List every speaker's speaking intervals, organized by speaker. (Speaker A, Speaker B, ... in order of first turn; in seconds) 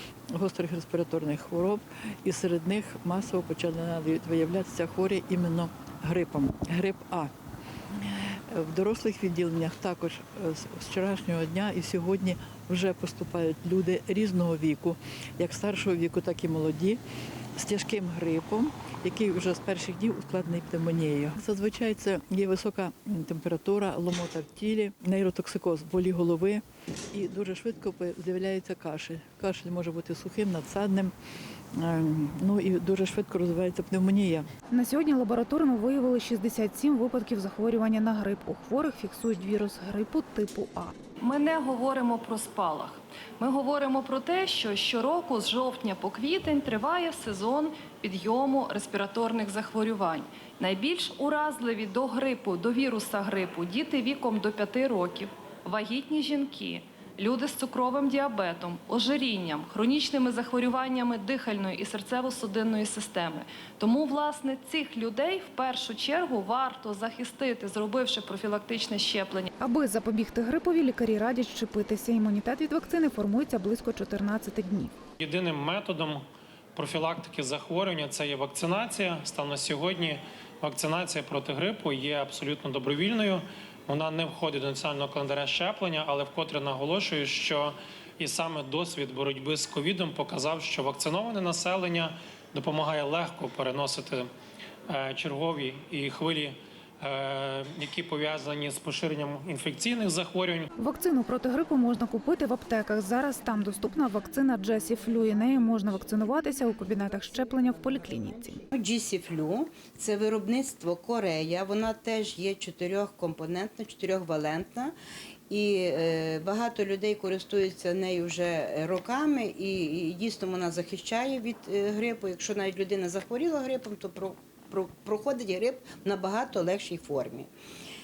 Speaker A: 0.3-7.3, 8.0-17.0, 17.6-26.6, 27.1-31.1, 31.7-34.5
Speaker B: 34.7-40.9, 69.6-74.9, 100.8-108.6
Speaker C: 41.2-69.5
Speaker D: 75.2-94.3, 94.9-100.7
Speaker E: 108.7-114.9, 115.5-127.5